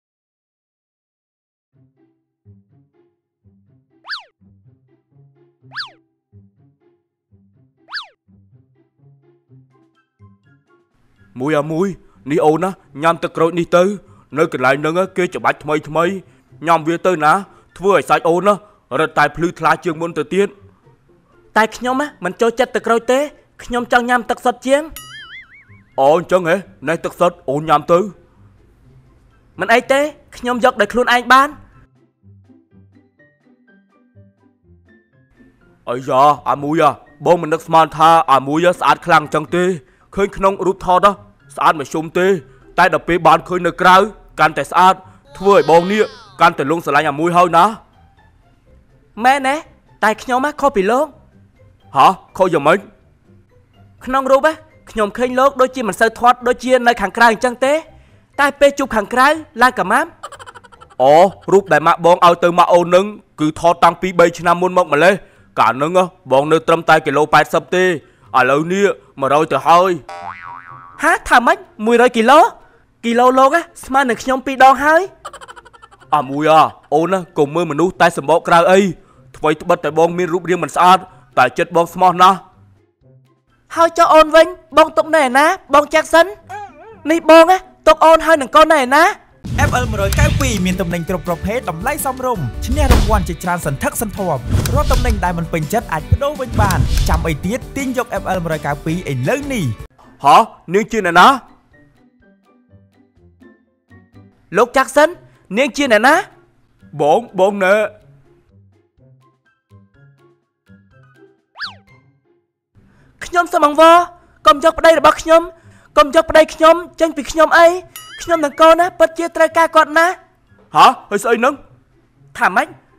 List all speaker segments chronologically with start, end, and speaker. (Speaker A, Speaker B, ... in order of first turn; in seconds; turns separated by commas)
Speaker A: 11.3-20.5, Speaker B: 21.5-24.9, Speaker A: 26.0-28.1, Speaker B: 29.6-31.5, Speaker A: 35.9-47.8, Speaker B: 49.1-51.1, Speaker A: 51.9-52.8, Speaker B: 54.0-57.8, Speaker B: 58.4-60.1, Speaker A: 61.0-70.0, Speaker B: 61.2-62.2, Speaker B: 71.0-75.1, Speaker A: 76.1-82.3, Speaker B: 83.7-86.3, Speaker B: 87.0-89.1, Speaker C: 89.6-99.7, Speaker A: 100.2-101.3, Speaker B: 104.5-106.2, Speaker A: 106.9-107.9, Speaker B: 113.2-120.2, Speaker A: 120.7-121.5, Speaker B: 120.8-121.3, Speaker B: 122.3-122.7